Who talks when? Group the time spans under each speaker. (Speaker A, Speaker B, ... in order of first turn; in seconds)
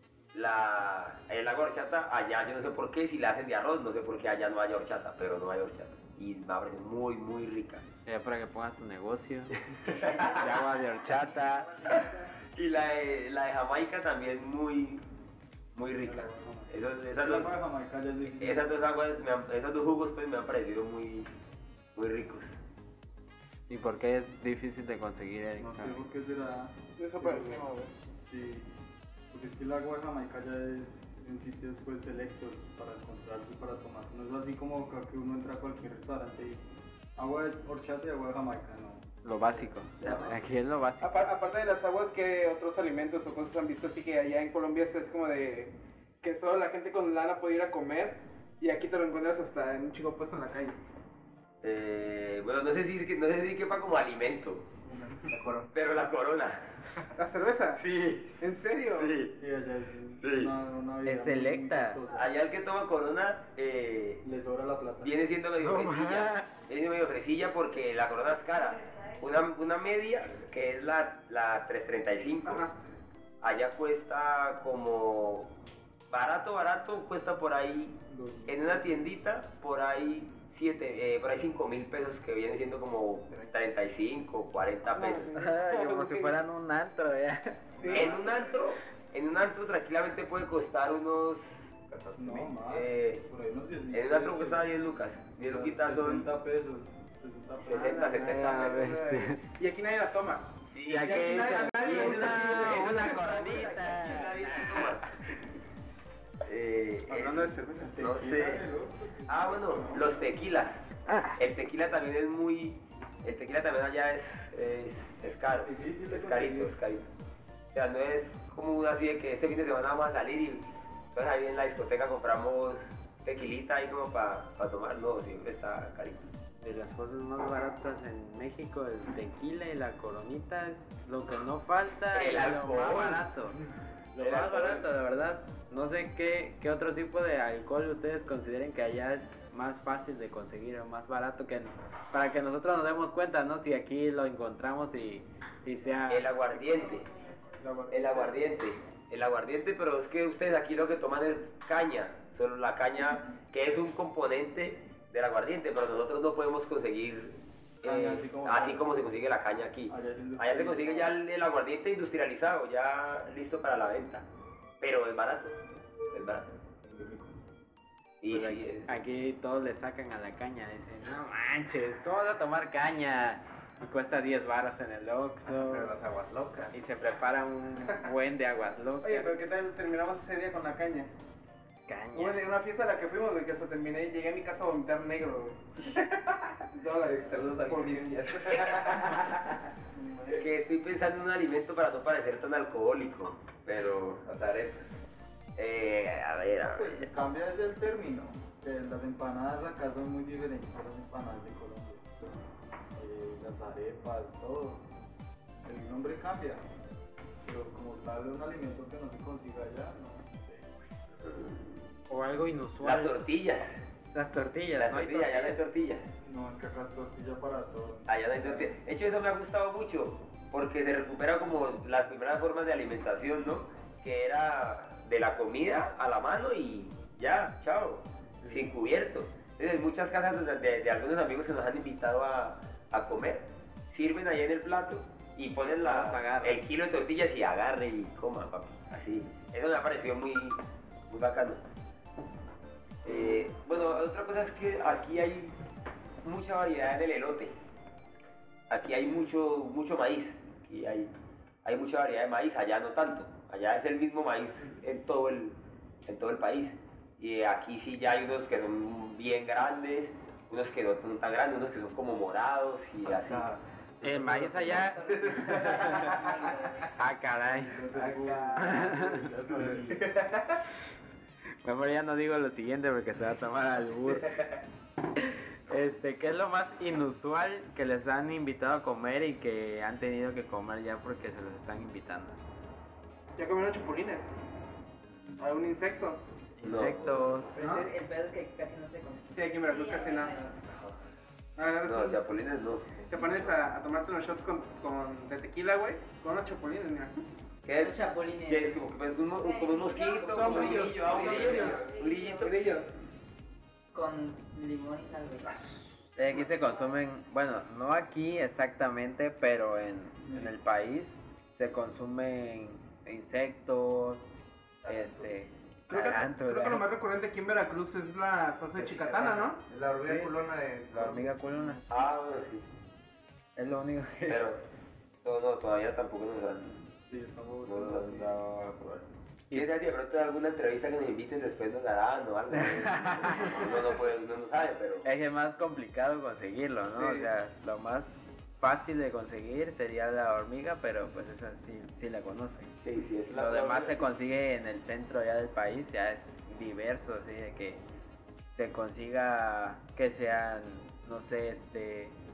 Speaker A: 0.3-7.8, 9.8-10.5, 11.8-15.0, 15.7-17.5, 18.2-21.3, 21.9-22.6, 51.6-54.7, 55.7-56.7, 57.8-58.4, 58.9-59.4, 60.2-60.5, 62.1-64.2, 65.0-72.7, 73.4-75.5, 76.1-85.4, 87.9-91.7, 92.6-93.3, 93.9-96.3, 97.6-99.0, 100.7-105.1, 106.4-108.6, 109.3-110.8, 111.3-117.1, 117.7-126.3, 132.1-133.2, 134.2-134.8, 146.1-147.1, 147.9-164.2, 164.8-165.6, 166.1-166.5, 168.2-169.0, 190.3-194.2, 195.6-197.1, 211.2-211.7, 212.8-213.7, 214.8-216.0, 218.1-241.6, 243.0-245.6, 246.2-247.5, 248.7-251.1, 251.6-263.5, 285.3-285.6, 286.6-287.4, 291.8-293.5, 297.6-302.6, 315.9-316.2, 321.9-322.6, 324.3-324.6, 325.2-326.9, 327.6-335.1, 342.8-344.0
Speaker B: 8.1-11.7, 23.7-26.0, 39.2-41.3, 61.0-62.0, 65.6-66.5, 85.3-87.8, 98.2-99.4, 100.8-104.7, 126.6-133.6, 134.1-146.3, 168.3-176.0, 176.7-179.4, 181.9-182.5, 212.1-213.2, 214.1-215.6, 235.6-236.6, 264.0-265.0, 265.5-265.9, 266.9-267.8, 268.6-269.3, 271.6-274.4, 275.1-282.4, 286.6-287.7, 306.1-316.9, 320.1-320.4, 320.9-322.0, 323.6-324.4, 332.7-333.7, 335.0-342.8, 343.3-347.8, 348.5-352.1
Speaker C: 10.1-10.4, 11.2-12.0, 264.6-266.9, 287.6-290.6, 297.8-298.7, 299.4-302.4, 303.9-305.5
Speaker D: 16.0-18.8, 25.6-28.7, 29.3-36.6, 37.1-40.3, 54.9-55.2, 59.3-62.3, 64.2-65.2, 78.1-78.9, 87.8-88.1, 92.2-94.7, 95.4-98.4, 107.2-110.5, 115.5-116.8, 157.8-158.9, 159.9-161.1, 189.9-190.4, 196.4-202.4, 202.9-204.8, 205.6-206.6, 207.4-210.7, 216.2-218.7, 228.4-228.7, 267.4-270.1, 310.3-310.5, 327.1-328.4
Speaker E: 27.0-27.9, 41.0-50.8, 57.1-57.8, 58.4-59.1, 84.9-86.3, 87.8-88.2, 97.9-100.5, 101.0-103.2, 107.1-107.9, 147.6-148.5, 179.0-181.1, 182.1-189.2, 283.4-284.3, 285.4-286.2, 289.3-290.4, 291.6-292.2, 293.1-297.2, 300.2-302.9, 315.9-319.6, 336.9-337.2
Speaker F: 55.3-55.7, 91.9-92.5, 175.4-176.7, 187.0-189.5, 194.2-194.9, 263.2-263.6, 265.2-266.1, 267.9-268.8, 269.6-270.4, 287.6-287.8, 314.8-315.3, 318.7-321.3